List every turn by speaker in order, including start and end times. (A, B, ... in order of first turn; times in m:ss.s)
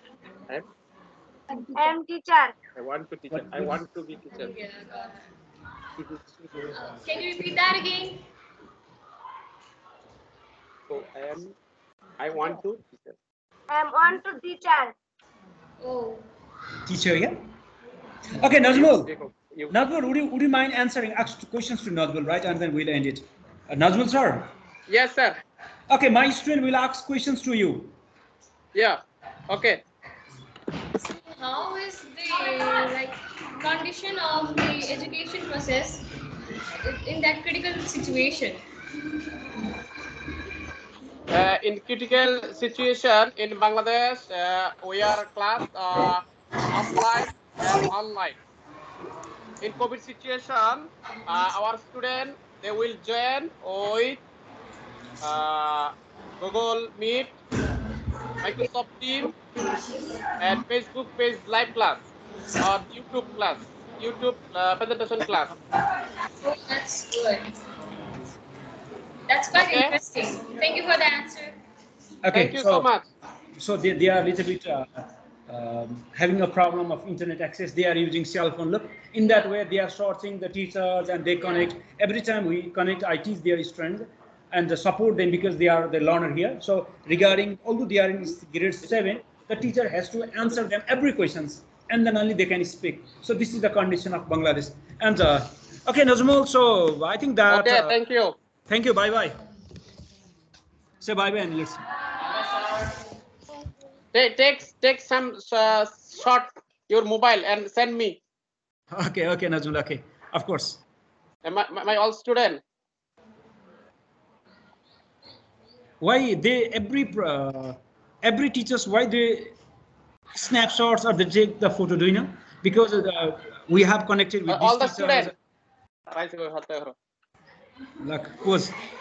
0:01.7-0:02.5 A
0:02.8-0:04.5 B
0:03.3-0:03.8 C
0:04.3-0:05.2 D
0:06.0-0:06.3 B
0:06.7-0:08.2 D
0:10.9-0:11.5 B
0:12.2-0:13.2 B
0:13.7-0:14.9 A
0:15.8-0:16.2 D
0:16.8-0:17.4 C
0:18.4-0:19.1 C
0:18.6-0:19.7 B
0:19.7-0:24.5 C
0:24.9-0:25.4 B
0:25.9-0:27.9 C
0:28.7-0:29.8 B
0:30.9-0:36.1 D
0:36.7-0:38.6 D
0:41.3-0:48.4 B
0:49.6-0:54.2 B
0:55.2-0:57.4 B
0:58.4-0:59.3 B
1:00.4-1:05.5 B
1:06.4-1:07.5 D
1:09.3-1:11.6 D
1:09.6-1:09.9 B
1:12.2-1:12.9 C
1:12.3-1:13.1 B
1:13.6-1:37.9 C
1:37.5-1:38.4 B
1:38.7-1:39.4 C
1:41.0-1:41.8 C
1:42.2-1:42.9 B
1:44.1-1:48.2 B
1:48.9-1:50.8 C
1:51.4-1:52.6 B
1:56.0-1:59.5 C
2:00.3-2:05.3 C
2:04.5-2:05.3 B
2:06.1-2:06.9 B
2:08.0-2:08.7 C